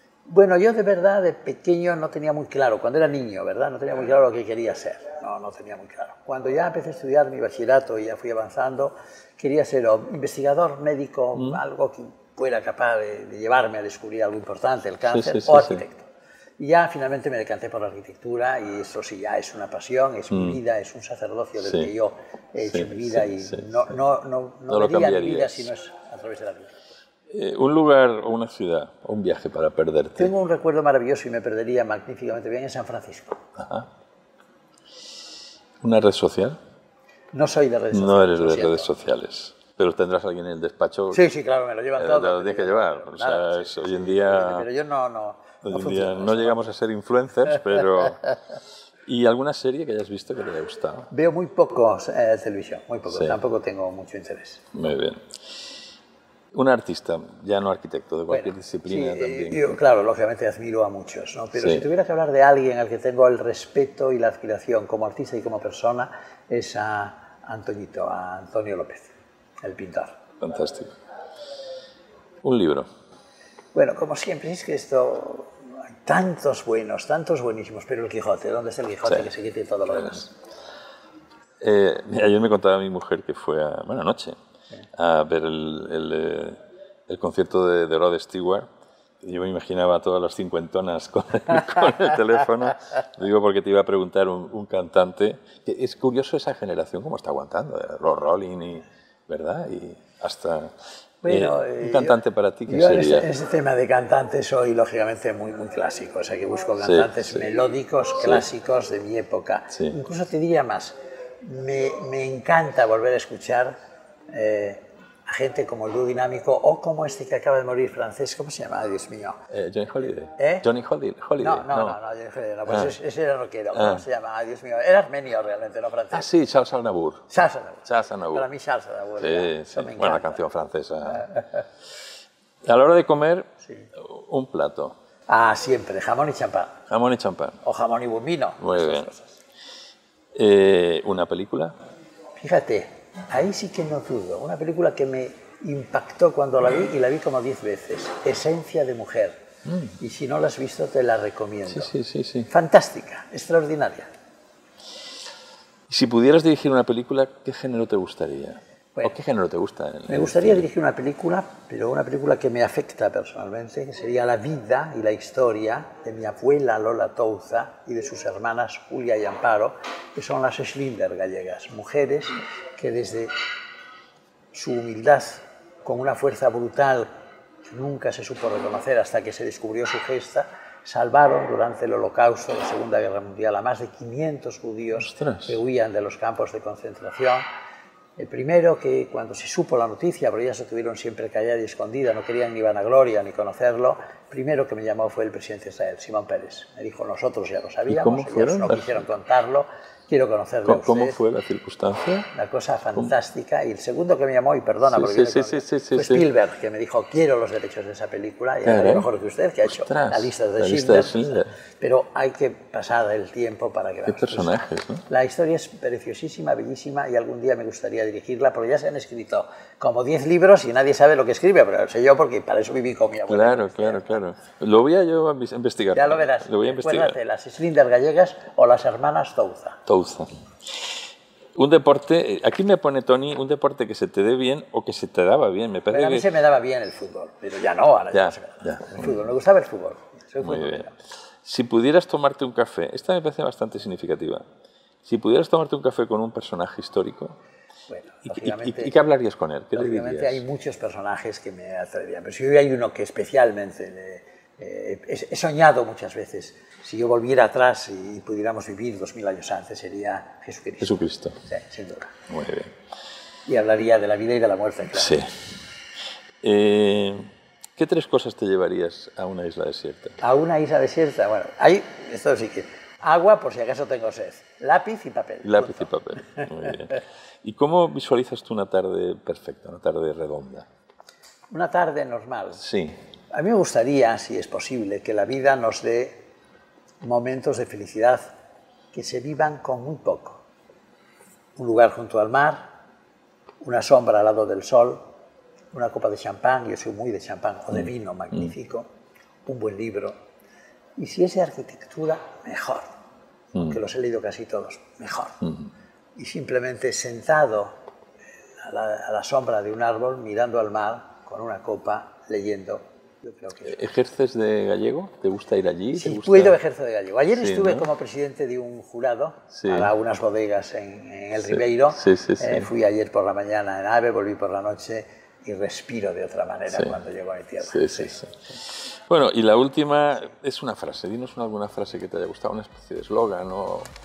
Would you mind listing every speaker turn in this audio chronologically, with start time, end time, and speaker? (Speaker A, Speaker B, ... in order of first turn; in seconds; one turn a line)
Speaker A: 0.3-16.1
Speaker B: 11.3-11.6
Speaker B: 15.0-15.8
Speaker A: 16.6-26.8
Speaker B: 20.3-20.6
Speaker B: 21.6-21.9
Speaker B: 22.7-23.7
Speaker B: 24.7-25.7
Speaker B: 27.3-30.3
Speaker A: 30.1-33.4
Speaker B: 33.6-33.9
Speaker B: 35.8-36.6
Speaker A: 37.3-38.9
Speaker B: 37.9-41.2
Speaker A: 41.1-46.6
Speaker B: 42.0-44.7
Speaker B: 45.6-48.4
Speaker B: 49.0-51.1
Speaker A: 51.1-54.6
Speaker B: 54.7-55.2
Speaker B: 56.5-59.8
Speaker A: 58.3-70.2
Speaker B: 61.5-61.8
Speaker B: 70.4-70.9
Speaker B: 72.4-72.9
Speaker A: 73.7-80.3
Speaker B: 81.6-84.3
Speaker B: 85.0-88.7
Speaker B: 89.2-103.3
Speaker A: 101.2-113.7
Speaker B: 106.8-107.2
Speaker A: 114.3-119.4
Speaker B: 119.5-122.0
Speaker A: 120.4-120.7
Speaker A: 121.4-126.3
Speaker B: 122.7-122.9
Speaker B: 123.7-124.0
Speaker B: 126.1-127.3
Speaker A: 127.3-130.4
Speaker B: 127.8-128.5
Speaker B: 129.2-131.4
Speaker B: 132.6-134.9
Speaker A: 135.3-136.8
Speaker B: 136.9-137.6
Speaker A: 137.6-139.4
Speaker B: 138.6-139.1
Speaker B: 140.3-141.7
Speaker A: 142.4-149.4
Speaker B: 149.7-150.0
Speaker A: 150.0-151.9
Speaker B: 151.7-152.5
Speaker A: 152.5-154.1
Speaker B: 155.9-160.7
Speaker A: 160.1-173.3
Speaker A: 174.5-177.1
Speaker A: 177.7-187.5
Speaker B: 184.9-185.6
Speaker A: 188.2-201.2
Speaker B: 197.9-198.9
Speaker B: 200.6-202.3
Speaker A: 202.3-224.2
Speaker B: 204.8-206.2
Speaker B: 208.6-209.1
Speaker B: 209.7-211.5
Speaker B: 214.1-215.0
Speaker B: 223.3-227.2
Speaker A: 225.9-229.8
Speaker B: 229.8-230.3
Speaker B: 231.6-236.3
Speaker A: 235.9-240.9
Speaker B: 238.1-239.2
Speaker B: 240.4-240.9
Speaker B: 241.4-244.4
Speaker B: 245.0-247.3
Speaker A: 247.9-248.9
Speaker B: 248.2-250.4
Speaker A: 249.7-262.1
Speaker B: 260.8-261.4
Speaker B: 262.3-262.7
Speaker A: 263.4-265.2
Speaker B: 264.9-265.4
Speaker B: 266.4-270.2
Speaker A: 270.2-276.5
Speaker B: 275.4-280.7
Speaker A: 281.5-282.6
Speaker B: 282.6-283.0
Speaker A: 283.3-286.2
Speaker A: 287.0-288.3
Speaker A: 288.9-290.4
Speaker A: 291.6-292.7
Speaker A: 293.6-295.0
Speaker A: 295.7-298.9
Speaker A: 299.4-300.2
Speaker A: 301.0-302.9
Speaker A: 303.6-305.5
Speaker A: 306.1-307.7
Speaker A: 308.6-313.8
Speaker B: 313.6-316.6
Speaker A: 315.9-328.2
Speaker B: 317.3-317.9
Speaker B: 319.5-319.9
Speaker B: 321.5-322.7
Speaker B: 327.6-333.9